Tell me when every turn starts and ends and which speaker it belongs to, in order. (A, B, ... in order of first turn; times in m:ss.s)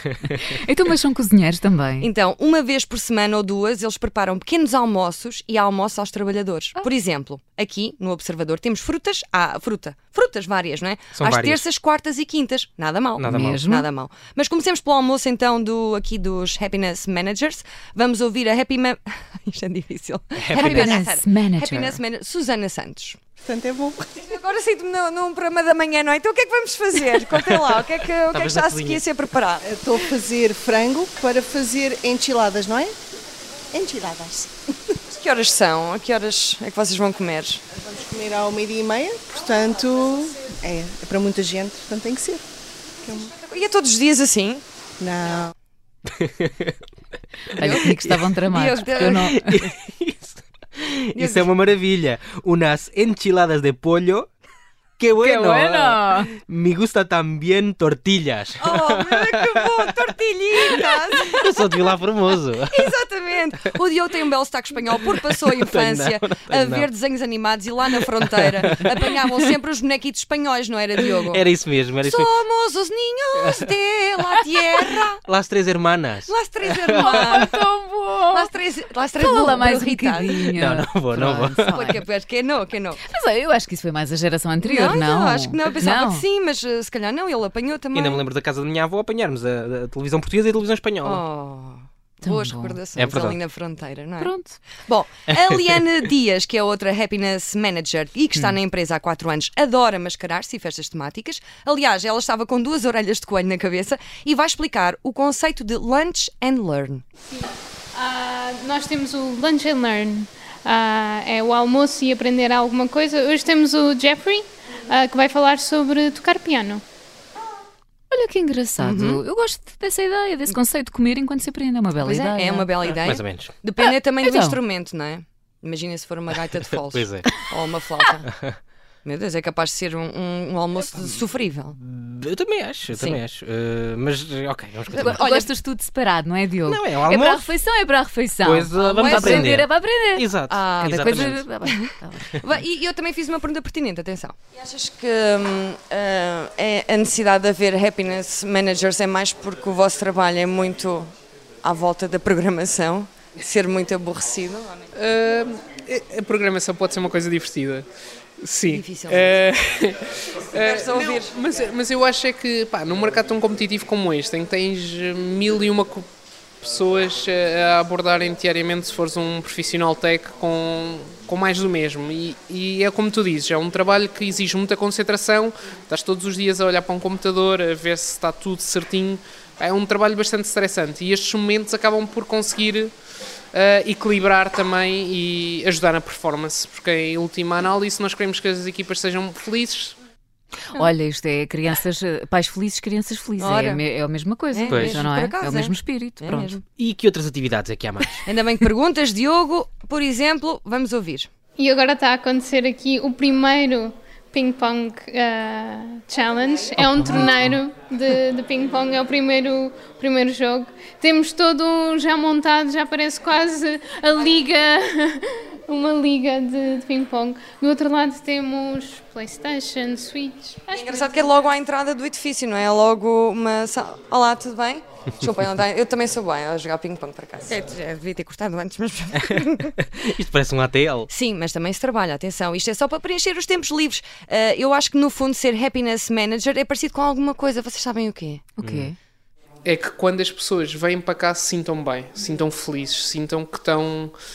0:00.3-0:02.1 A
0:02.0-0:23.2 B
0:11.1-0:11.6 C
0:13.2-0:13.6 C
0:13.3-0:13.9 A
0:20.4-0:21.0 C
0:20.5-0:22.0 A
0:23.4-0:24.2 D
0:24.2-0:29.7 B
0:28.3-0:29.0 C
0:29.6-0:32.9 D
0:33.7-0:34.5 D
0:35.1-0:37.6 B
0:37.8-0:42.4 D
0:43.0-0:43.3 D
0:43.3-0:44.6 B
0:45.0-0:45.5 D
0:46.1-0:46.7 C
0:47.5-0:49.6 A
0:47.5-0:49.5 B
0:49.1-0:54.3 C
0:51.1-0:51.5 B
0:55.0-1:00.0 C
0:55.2-0:56.3 A
0:58.6-1:02.0 B
1:00.6-1:02.9 C
1:02.6-1:11.4 B
1:05.1-1:06.9 C
1:08.0-1:09.2 C
1:11.3-1:12.4 C
1:12.0-1:15.2 B
1:13.4-1:13.7 C
1:15.2-1:17.4 C
1:16.2-1:17.6 B
1:16.9-1:18.5 A
1:18.3-1:20.5 B
1:19.2-1:22.0 A
1:20.6-1:21.8 C
1:21.6-1:23.0 B
1:23.0-1:26.2 A
1:24.6-1:28.2 B
1:27.9-1:31.2 C
1:31.0-1:47.0 B
1:32.2-1:32.8 A
1:32.9-1:33.4 C
1:34.2-1:34.6 A
1:47.3-1:56.8 E
1:58.1-2:02.7 A
1:58.8-1:59.2 B
2:02.0-2:08.3 B
2:02.8-2:03.5 C
2:03.8-2:04.6 A
2:06.9-2:07.3 C
2:09.0-2:11.8 B
2:11.8-2:15.2 C
2:12.9-2:13.2 B
2:14.9-2:15.5 B
2:15.0-2:22.4 A
2:16.7-2:17.5 C
2:18.4-2:21.4 C
2:18.7-2:19.6 B
2:20.5-2:31.1 B
2:31.6-2:34.9 B
2:34.9-2:37.8 F
2:38.4-2:46.0 F
2:38.7-2:39.4 B
2:40.5-2:41.3 B
2:46.6-3:02.9 F
3:03.5-3:10.0 F
3:10.7-3:16.6 A
3:13.4-3:13.8 B
3:14.5-3:16.6 B
3:14.7-3:15.0 C
3:16.8-3:18.2 C
3:18.2-3:21.3 B
3:21.6-3:41.3 E
3:26.8-3:27.3 F
3:40.7-3:49.8 B
3:49.9-3:51.1 C
3:51.1-3:58.4 B
3:58.6-3:59.0 A
3:59.6-4:04.1 F